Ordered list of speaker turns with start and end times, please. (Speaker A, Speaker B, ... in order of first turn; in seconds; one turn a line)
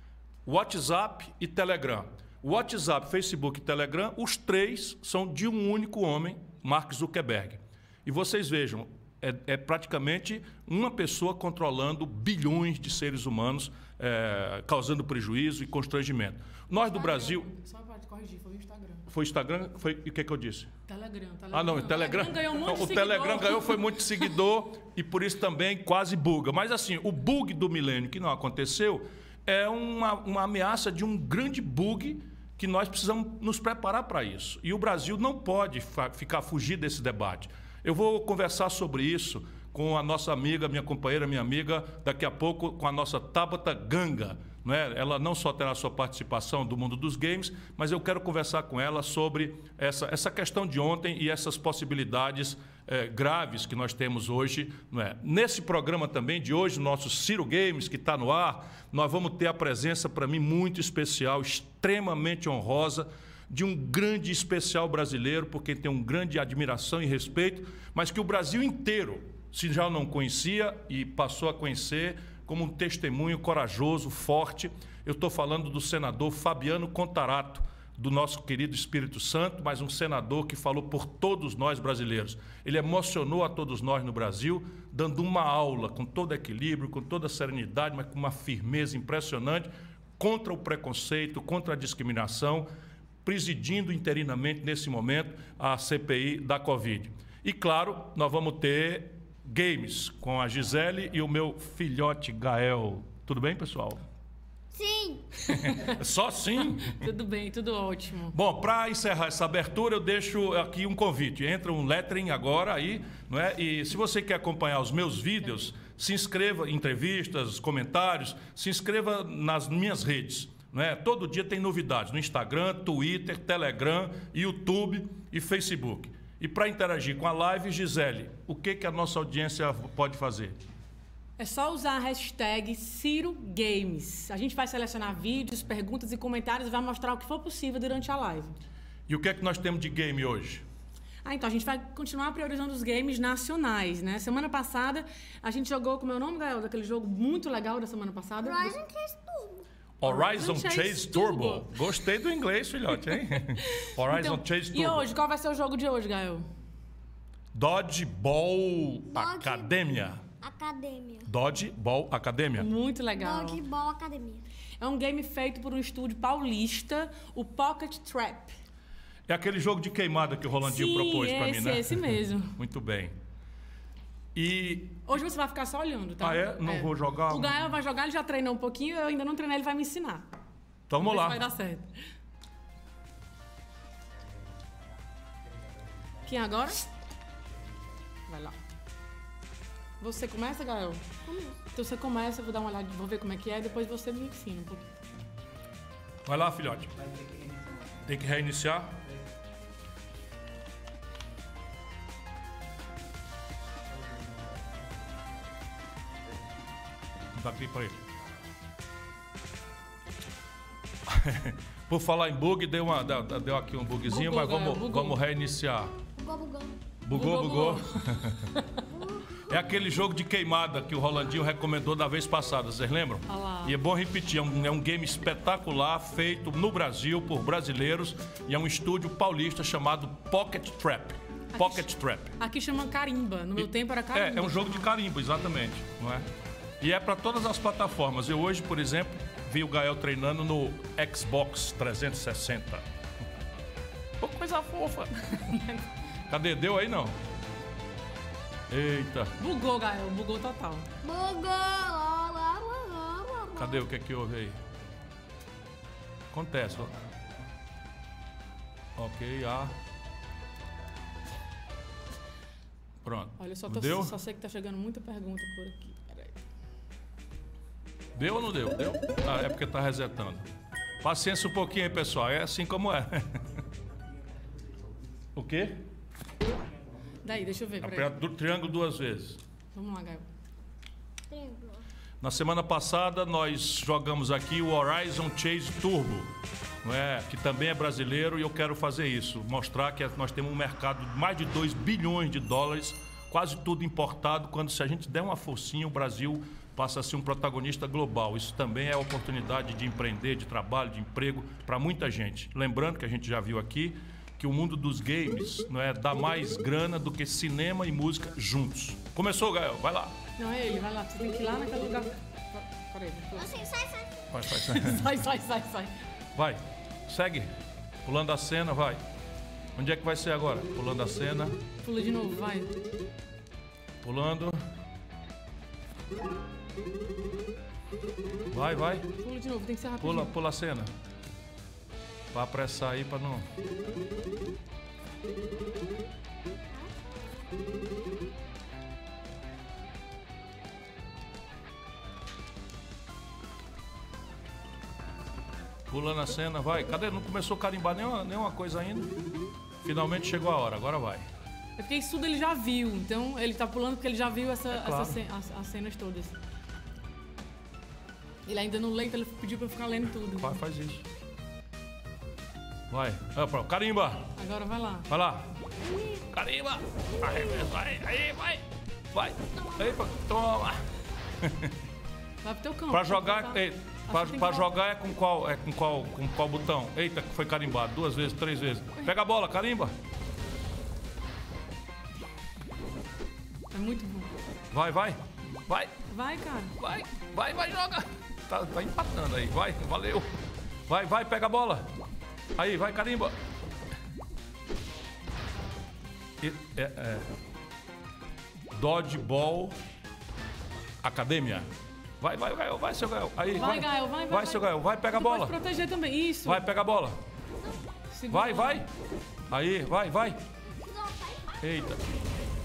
Speaker A: 0.5-17.5
Speaker B: 16.8-19.1
Speaker A: 19.1-20.7
Speaker B: 20.9-24.3
Speaker A: 21.5-92.7
Speaker A: 93.2-104.0
Speaker C: 104.7-105.5
Speaker A: 105.5-107.1
Speaker B: 106.6-108.3
Speaker A: 108.3-130.6
Speaker B: 131.4-138.5
Speaker A: 139.1-140.6
Speaker B: 141.2-148.8
Speaker C: 148.4-149.7
Speaker A: 150.0-155.1
Speaker B: 150.1-151.7
Speaker B: 153.1-156.5
Speaker A: 157.5-160.2
Speaker C: 159.1-159.8
Speaker C: 160.4-161.3
Speaker A: 161.3-162.7
Speaker B: 162.6-163.6
Speaker C: 163.2-164.5
Speaker B: 164.8-168.5
Speaker A: 169.3-173.2
Speaker B: 170.6-172.5
Speaker A: 174.3-175.0
Speaker B: 175.1-180.3
Speaker A: 176.2-177.6
Speaker A: 180.9-181.4
Speaker B: 181.0-182.0
Speaker B: 186.2-186.8
Speaker B: 188.3-188.6
Speaker B: 190.0-191.0
Speaker C: 191.2-191.6
Speaker B: 191.7-194.8
Speaker A: 196.2-197.1
Speaker A: 198.0-199.0
Speaker A: 207.3-208.0
Speaker A: 211.1-215.9
Speaker B: 214.1-215.2
Speaker C: 216.0-216.8
Speaker A: 217.0-218.5
Speaker B: 217.1-218.8
Speaker C: 218.9-219.6
Speaker A: 219.4-232.4
Speaker B: 223.3-223.8
Speaker B: 231.5-234.9
Speaker A: 233.6-236.3
Speaker A: 236.8-242.8
Speaker B: 244.2-245.9
Speaker A: 246.3-247.2
Speaker A: 248.7-249.3
Speaker B: 249.4-250.9
Speaker C: 251.0-253.8
Speaker A: 253.6-254.6
Speaker A: 256.3-256.9
Speaker A: 258.9-259.7
Speaker A: 263.0-264.1
Speaker B: 263.4-266.4
Speaker A: 268.1-270.5
Speaker A: 271.0-273.4
Speaker A: 275.3-275.9
Speaker B: 277.2-278.1
Speaker A: 277.8-279.4
Speaker B: 279.7-280.2
Speaker C: 281.3-281.8
Speaker A: 282.2-286.3
Speaker A: 286.8-310.1
Speaker B: 310.4-313.5
Speaker C: 313.3-314.3
Speaker A: 314.3-315.1
Speaker B: 314.5-315.9
Speaker A: 316.3-317.5
Speaker A: 318.0-319.0
Speaker A: 319.8-321.6
Speaker B: 321.8-322.8
Speaker A: 324.0-324.6
Speaker A: 328.5-329.1
Speaker B: 329.2-330.3
Speaker A: 330.0-330.9
Speaker A: 332.3-333.5
Speaker A: 345.9-349.1
Speaker A: 349.8-351.3
Speaker B: 351.8-356.4
Speaker A: 354.7-355.2
Speaker B: 358.4-360.5
Speaker A: 360.4-361.0
Speaker A: 362.9-364.3
Speaker B: 364.4-365.1
Speaker A: 365.1-365.5
Speaker C: 365.8-366.3
Speaker A: 366.3-370.9
Speaker C: 367.2-367.6
Speaker C: 369.6-370.0
Speaker A: 371.4-371.7
Speaker B: 372.4-374.7
Speaker A: 372.9-379.9
Speaker B: 383.7-384.3
Speaker A: 384.7-385.9
Speaker B: 386.1-386.8
Speaker A: 386.8-390.3
Speaker A: 390.9-391.9
Speaker A: 392.6-393.4
Speaker A: 396.4-397.3
Speaker A: 398.7-399.8
Speaker A: 401.0-401.7
Speaker A: 402.2-405.6
Speaker B: 403.5-406.6
Speaker A: 406.4-407.2
Speaker B: 408.1-408.8
Speaker A: 408.3-408.9
Speaker A: 409.5-410.4
Speaker C: 410.6-411.6
Speaker A: 411.6-412.0